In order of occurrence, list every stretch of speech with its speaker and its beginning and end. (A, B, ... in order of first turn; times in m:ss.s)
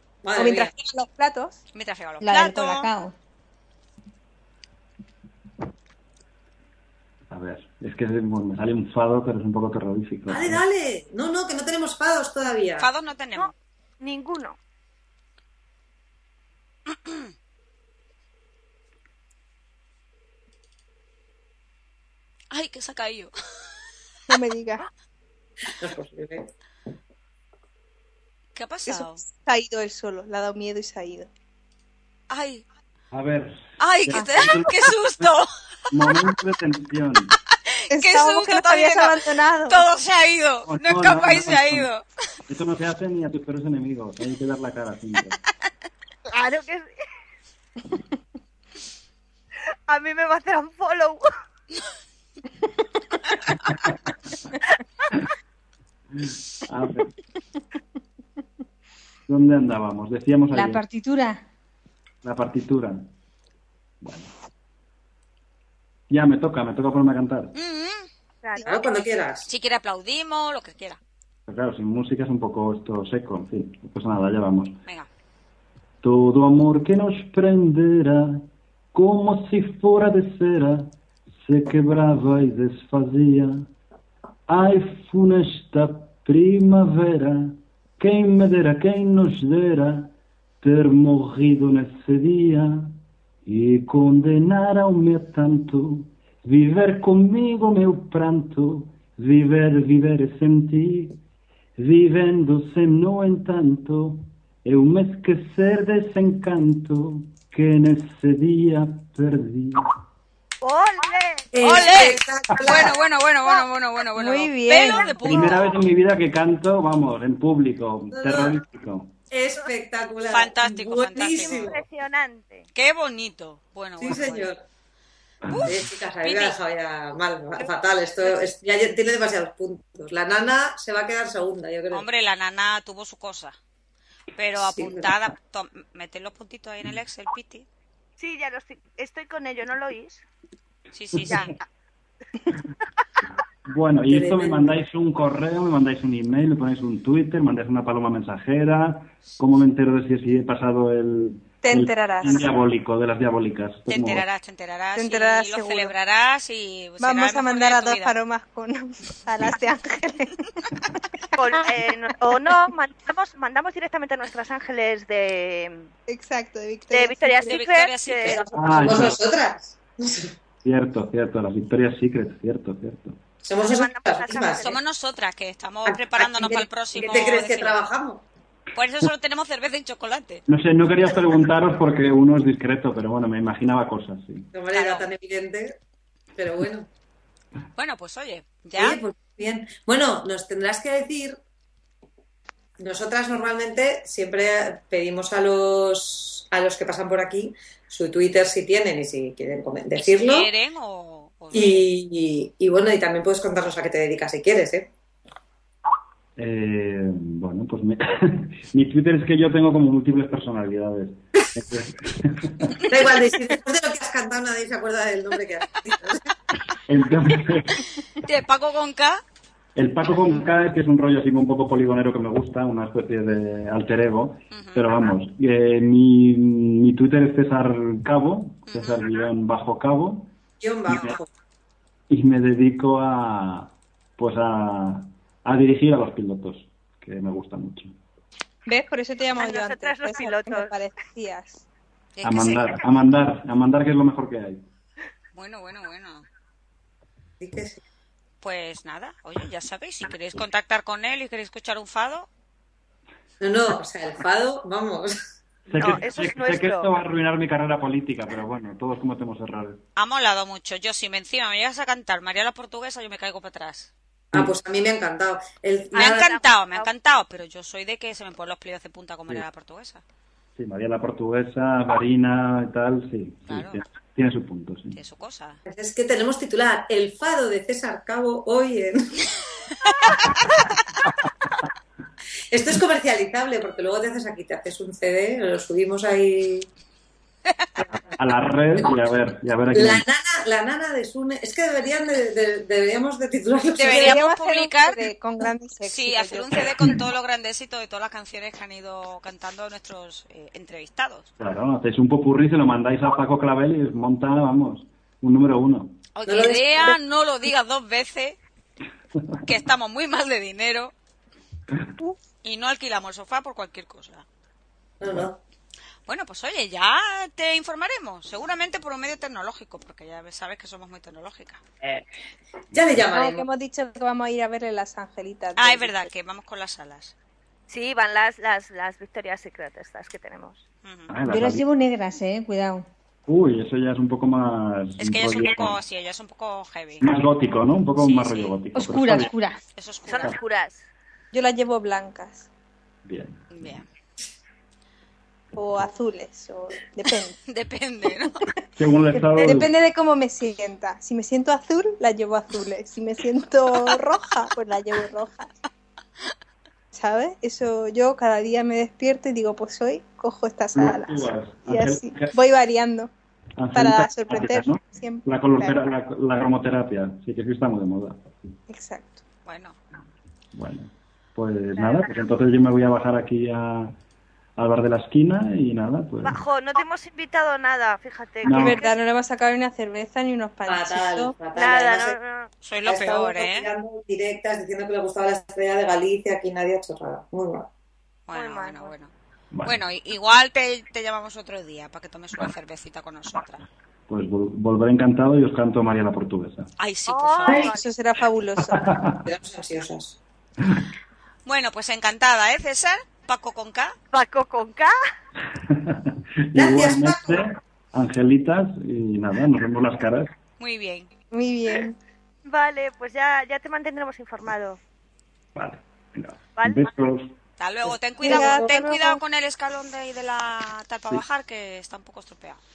0:00.2-0:00.7 A
0:00.4-0:01.6 B
0:01.7-0:02.9 C
0:02.2-0:03.2 D
0:07.3-0:10.6 E
0:10.3-0:12.9 A
0:12.8-0:13.5 C
0:13.4-0:14.6 F
0:22.5-0:23.3 C
0:24.3-0:24.9 B
0:25.7-0:26.5 A
0:28.6-0:29.2 C
0:28.9-0:31.3 B
0:32.3-0:32.6 C
0:33.1-0:35.4 E
0:33.8-0:35.5 C
0:34.2-0:34.4 B
0:35.9-0:37.4 E
0:37.7-0:42.0 C
0:37.9-0:39.8 B
0:40.6-0:41.9 E
0:42.5-0:45.4 E
0:46.3-0:46.9 F
0:49.9-0:51.3 F
0:56.6-0:57.1 E
0:59.3-1:00.8 E
1:00.5-1:01.4 D
1:02.2-1:03.1 E
1:04.0-1:04.3 E
1:06.1-1:07.6 E
1:07.6-1:08.1 C
1:08.4-1:09.1 F
1:08.6-1:09.5 A
1:09.5-1:11.0 C
1:11.5-1:14.8 E
1:16.0-1:20.9 E
1:21.4-1:23.7 E
1:24.5-1:41.2 E
1:41.8-1:49.9 E
1:50.6-1:52.0 F
1:51.5-1:53.0 A
1:51.6-1:55.8 C
1:54.1-1:55.2 B
1:55.2-1:59.2 E
1:58.1-1:58.6 A
1:59.3-2:01.8 A
2:00.2-2:01.7 C
2:01.4-2:02.7 F
2:02.8-2:04.5 C
2:04.0-2:04.6 A
2:05.4-2:05.8 E
2:05.5-2:06.6 C
2:05.6-2:12.0 A
2:11.9-2:13.6 C
2:14.4-2:17.7 C
2:14.6-2:15.2 A
2:18.2-2:20.2 F
2:20.9-2:21.5 C
2:21.1-2:21.5 E
2:21.3-2:21.6 F
2:23.7-2:34.2 E
2:24.1-2:24.8 A
2:31.6-2:32.5 B
2:33.9-2:38.2 C
2:35.0-2:35.9 B
2:37.0-2:40.7 B
2:41.4-2:45.9 F
2:41.4-2:41.6 B
2:46.1-2:47.6 B
2:46.9-2:48.4 F
2:47.4-2:48.4 C
2:48.2-2:50.4 A
2:48.5-2:49.2 E
2:50.6-2:53.2 E
2:53.4-2:54.7 A
2:53.6-2:54.8 F
2:54.6-2:57.8 C
2:55.9-2:58.2 A
2:58.8-3:00.4 C
3:00.5-3:04.5 E
3:04.5-3:05.8 A
3:04.7-3:05.1 C
3:06.4-3:06.9 A
3:07.8-3:09.0 C
3:08.8-3:11.4 A
3:12.8-3:20.5 A
3:20.0-3:21.9 C
3:21.5-3:24.9 A
3:26.4-3:32.8 E
3:32.9-3:36.2 A
3:36.9-3:37.9 E
3:38.2-3:39.2 C
3:39.8-3:50.3 E
3:44.5-3:44.9 C
3:48.7-3:49.2 C
3:50.6-3:51.3 A
3:50.9-3:51.2 E
3:52.1-3:57.9 E
3:58.7-4:01.6 B
3:59.4-4:00.7 F
4:02.2-4:02.8 C
4:02.2-4:04.7 E
4:05.3-4:06.3 C
4:07.4-4:07.8 A
4:08.4-4:12.3 C
4:13.4-4:15.2 A
4:15.7-4:19.8 E
4:16.0-4:16.9 F
4:20.0-4:23.9 C
4:24.3-4:26.3 A
4:25.9-4:30.0 C
4:26.0-4:26.9 F
4:30.6-4:35.0 E
4:33.5-4:33.8 C
4:35.0-4:35.6 C
4:35.7-4:39.2 A
4:42.5-4:46.7 A
4:48.2-4:50.1 E
4:49.7-4:54.2 A
4:53.8-4:55.1 C
4:53.8-4:56.7 B
4:55.9-5:01.3 C
5:01.4-5:06.0 E
5:06.2-5:08.4 C
5:06.3-5:07.0 A
5:09.4-5:10.9 C
5:12.4-5:14.2 C
5:15.0-5:15.4 A
5:16.1-5:21.6 C
5:21.8-5:22.1 A
5:22.7-5:23.4 A
5:23.1-5:26.1 B
5:25.6-5:27.1 C
5:27.7-5:30.6 F
5:30.8-5:31.1 C
5:31.1-5:31.6 E
5:31.3-5:32.9 D
5:33.3-5:35.8 E
5:35.0-5:37.1 C
5:37.0-5:39.3 E
5:38.0-5:38.5 C
5:38.8-5:39.6 D
5:39.8-5:40.4 C
5:40.0-5:40.9 F
5:41.3-5:42.5 B
5:43.1-5:43.5 E
5:43.5-5:43.9 C
5:45.5-5:47.4 B
5:47.5-5:48.4 C
5:48.8-5:49.7 E
5:49.4-5:55.6 B
5:56.9-6:03.1 B
6:00.7-6:02.3 E
6:03.6-6:08.4 E
6:03.7-6:05.8 B
6:08.7-6:09.2 B
6:09.4-6:09.8 C
6:10.5-6:14.0 E
6:11.8-6:12.1 F
6:14.6-6:16.4 E
6:16.2-6:19.0 F
6:18.4-6:18.8 E
6:18.4-6:21.4 B
6:20.7-6:22.2 A
6:21.5-6:22.5 F
6:22.6-6:23.7 C
6:22.9-6:27.7 A
6:28.3-6:29.1 C
6:28.3-6:28.9 F
6:29.6-6:33.7 C
6:34.1-6:36.7 E
6:36.8-6:37.7 C
6:37.1-6:37.9 F
6:37.5-6:39.0 B
6:38.7-6:39.2 E
6:39.2-6:40.2 A
6:41.4-6:44.0 C
6:44.1-6:45.0 F
6:45.6-6:50.3 E
6:46.6-6:47.5 A
6:50.6-6:51.1 C
6:51.3-6:52.0 B
6:52.4-6:54.8 F
6:55.6-6:57.4 E
6:56.6-6:56.9 F
6:57.6-7:02.6 C
6:58.2-6:59.2 B
6:58.2-6:58.6 A